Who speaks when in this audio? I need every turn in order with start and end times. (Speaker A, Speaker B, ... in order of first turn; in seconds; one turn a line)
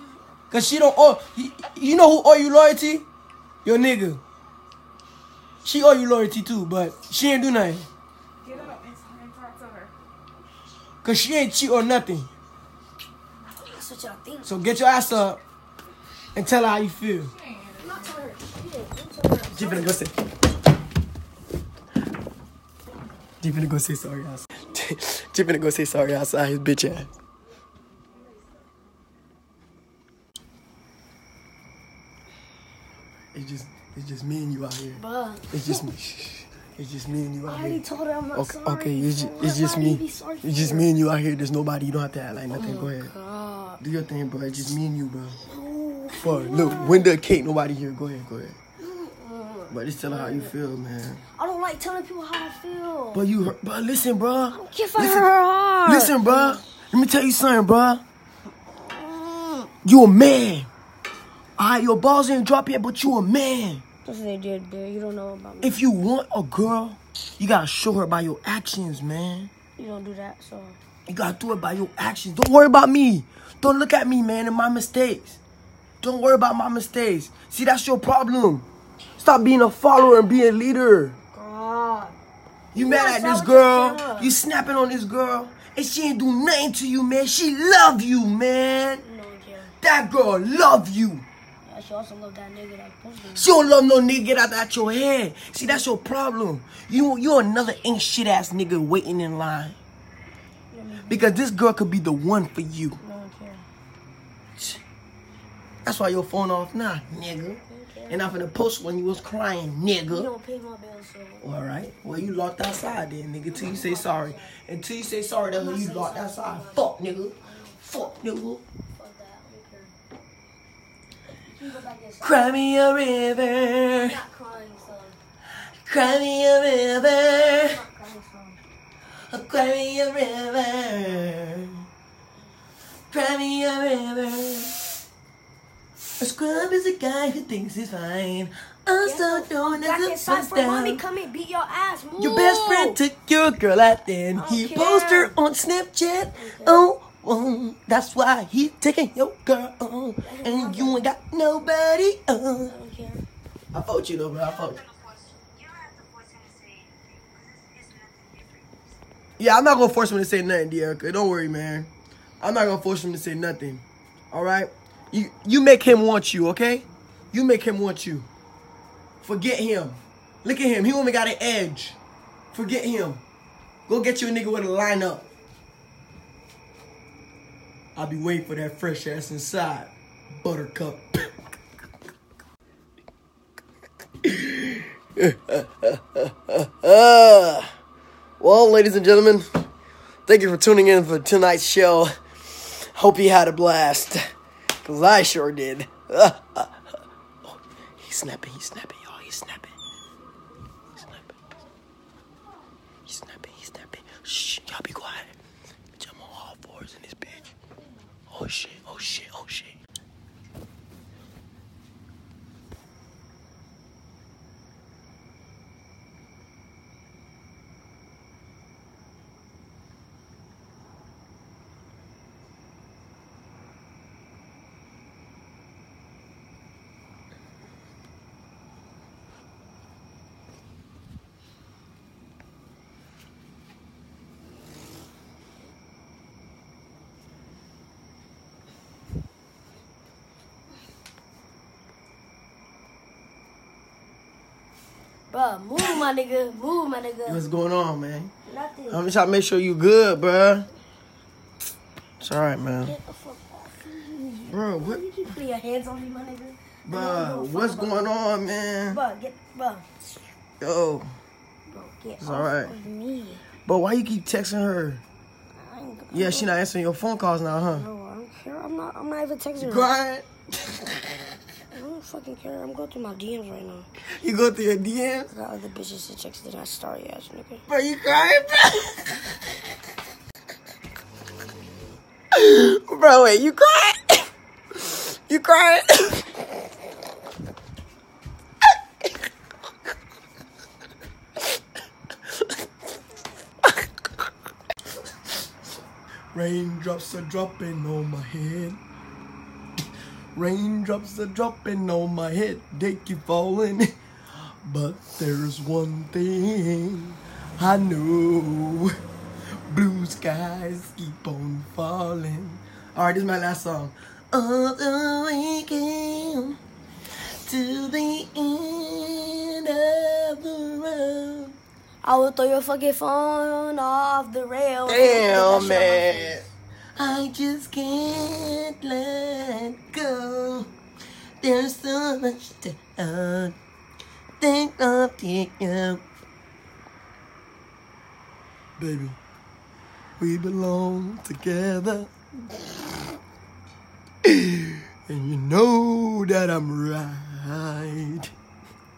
Speaker A: 0.5-3.1
Speaker A: 3.6-4.2
Speaker A: 5.6-7.9
Speaker B: 8.4-9.9
Speaker A: 11.0-12.3
Speaker C: 13.5-14.6
Speaker A: 14.4-15.4
Speaker A: 16.4-17.3
Speaker B: 17.2-18.1
Speaker C: 17.8-20.0
Speaker A: 19.5-20.1
Speaker A: 23.4-27.1
Speaker A: 33.3-35.0
Speaker C: 35.0-35.9
Speaker A: 35.5-37.8
Speaker C: 37.5-40.9
Speaker A: 38.4-43.1
Speaker C: 42.5-43.8
Speaker A: 43.8-45.4
Speaker C: 45.5-47.1
Speaker A: 46.2-48.6
Speaker C: 48.8-50.5
Speaker A: 49.7-51.2
Speaker C: 51.3-53.2
Speaker A: 53.1-55.3
Speaker C: 54.5-56.6
Speaker A: 55.9-58.0
Speaker C: 58.8-59.7
Speaker A: 59.8-60.7
Speaker A: 61.6-63.8
Speaker C: 64.0-65.8
Speaker A: 65.6-69.5
Speaker C: 69.8-70.8
Speaker A: 71.1-75.4
Speaker A: 76.0-78.7
Speaker A: 79.2-81.2
Speaker C: 81.3-82.2
Speaker C: 82.7-84.3
Speaker A: 82.7-89.0
Speaker C: 89.0-89.8
Speaker A: 89.8-91.3
Speaker C: 91.6-93.5
Speaker A: 93.3-99.8
Speaker C: 95.6-95.9
Speaker C: 100.7-101.4
Speaker A: 101.1-103.0
Speaker C: 103.0-103.7
Speaker A: 105.8-110.3
Speaker C: 107.7-108.3
Speaker C: 110.1-111.5
Speaker A: 111.4-118.6
Speaker C: 113.5-114.6
Speaker C: 115.5-118.1
Speaker C: 118.9-119.9
Speaker C: 121.5-122.5
Speaker A: 122.2-124.2
Speaker C: 123.9-125.2
Speaker A: 125.8-127.8
Speaker C: 127.6-128.6
Speaker A: 129.3-131.9
Speaker A: 133.1-134.7
Speaker A: 136.2-141.0
Speaker C: 139.0-143.0
Speaker A: 142.2-152.7
Speaker C: 144.3-145.3
Speaker C: 146.3-146.9
Speaker C: 150.2-151.1
Speaker C: 152.6-153.2
Speaker A: 153.7-154.8
Speaker D: 154.4-158.9
Speaker A: 159.4-161.9
Speaker A: 162.4-168.3
Speaker A: 169.2-172.0
Speaker A: 172.5-173.2
Speaker A: 173.9-175.3
Speaker A: 178.0-181.4
Speaker A: 184.2-187.7
Speaker A: 188.4-189.7
Speaker A: 190.3-194.3
Speaker A: 194.8-199.8
Speaker A: 200.9-201.4
Speaker A: 203.1-205.3
Speaker A: 206.0-207.5
Speaker A: 208.3-209.8
Speaker C: 245.3-247.4
Speaker A: 247.3-248.3
Speaker C: 248.5-249.1
Speaker A: 248.9-250.7
Speaker A: 252.2-252.9
Speaker C: 252.8-258.1
Speaker A: 254.5-255.0
Speaker A: 256.9-259.0
Speaker C: 258.9-259.9
Speaker A: 260.6-261.1
Speaker C: 261.7-263.4
Speaker A: 262.2-262.7
Speaker A: 263.7-265.0
Speaker C: 265.6-266.5
Speaker A: 266.1-267.9
Speaker C: 267.7-269.9
Speaker A: 269.6-271.0
Speaker C: 271.7-273.9
Speaker A: 274.2-275.3
Speaker C: 275.3-277.6
Speaker A: 277.7-279.3
Speaker A: 282.3-284.3
Speaker A: 284.8-286.4
Speaker A: 296.3-298.8
Speaker A: 300.4-303.9
Speaker A: 304.6-309.0
Speaker A: 309.7-316.6
Speaker A: 317.4-321.6
Speaker C: 322.0-326.4
Speaker A: 324.9-326.4
Speaker A: 327.0-330.7
Speaker A: 331.4-333.6
Speaker A: 334.4-336.0
Speaker A: 338.8-339.2
Speaker A: 340.2-342.6
Speaker A: 344.2-348.3